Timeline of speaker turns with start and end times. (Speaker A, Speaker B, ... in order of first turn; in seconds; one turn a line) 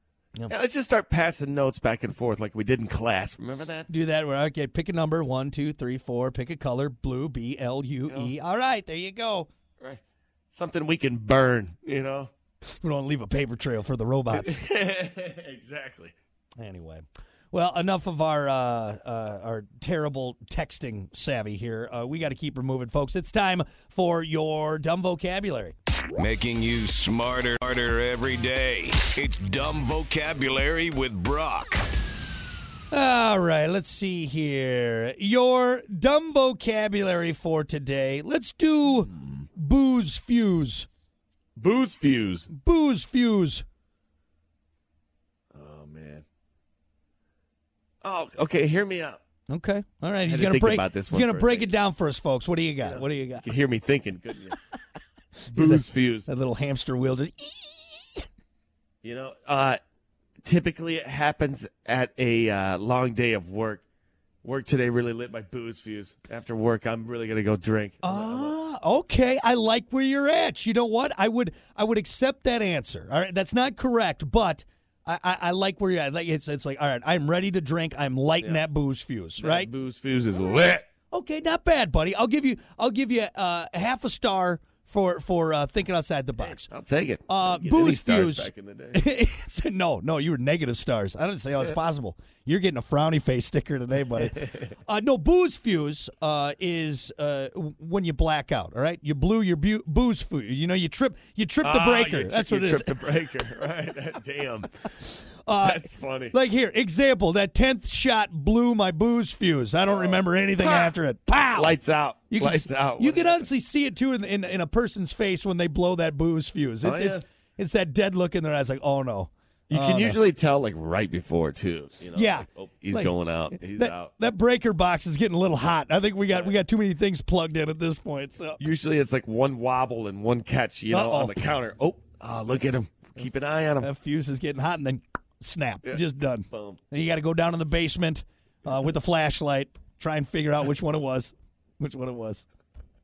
Speaker A: 0.5-3.9
Speaker B: 3.9-9.5
Speaker A: 10.5-12.3
Speaker B: 12.7-14.6
Speaker A: 14.3-16.1
Speaker B: 16.6-25.7
Speaker C: 26.1-31.9
Speaker B: 32.9-40.9
Speaker A: 41.5-42.5
Speaker B: 42.5-43.6
Speaker A: 45.5-46.2
Speaker A: 48.0-49.2
Speaker B: 49.5-53.5
Speaker A: 50.2-51.7
Speaker A: 52.8-54.6
Speaker B: 55.4-58.2
Speaker A: 55.5-56.3
Speaker A: 59.0-59.8
Speaker A: 60.4-63.8
Speaker A: 64.4-68.5
Speaker B: 68.0-79.7
Speaker A: 79.4-80.8
Speaker B: 81.1-86.7
Speaker A: 86.4-89.0
Speaker B: 87.3-103.1
Speaker A: 94.2-94.7
Speaker A: 101.6-104.8
Speaker B: 105.0-111.8
Speaker A: 105.6-106.3
Speaker A: 109.9-111.0
Speaker A: 111.5-113.5
Speaker B: 112.3-120.2
Speaker A: 116.8-117.2
Speaker A: 119.7-124.1
Speaker B: 122.1-128.6
Speaker A: 126.3-126.6
Speaker A: 128.6-133.9
Speaker B: 130.9-131.3
Speaker B: 133.8-142.4
Speaker A: 136.5-136.8